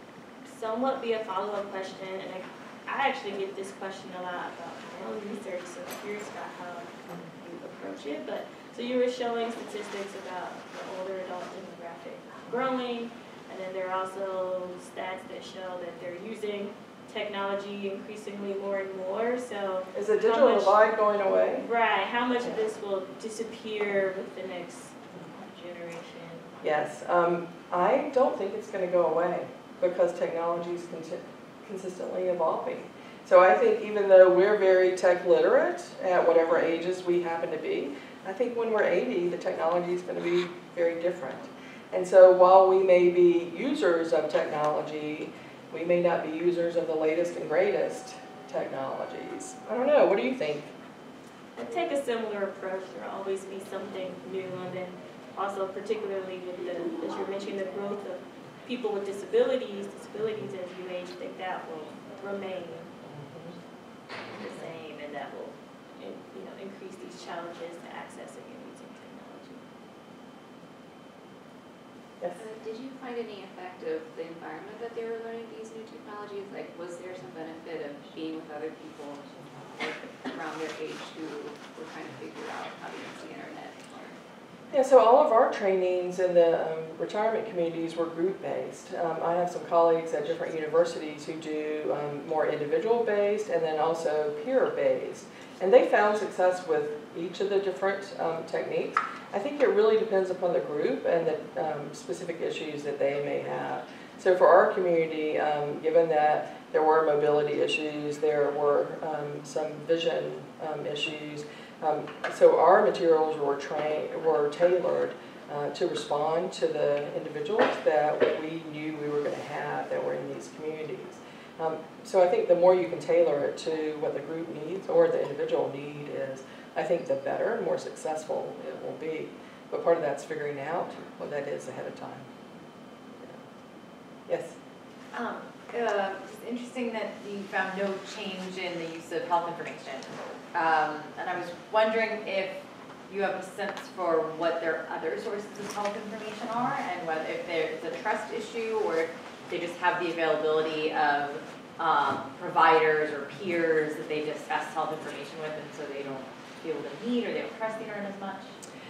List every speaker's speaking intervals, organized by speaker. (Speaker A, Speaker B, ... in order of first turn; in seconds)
Speaker A: 0.5-20.9, 21.6-26.5, 51.5-62.9, 64.3-69.6
Speaker B: 19.9-21.7, 26.6-50.7, 63.1-63.5, 84.7-132.3, 133.2-133.4, 134.3-134.6
Speaker C: 72.4-84.2
Speaker D: 135.1-158.5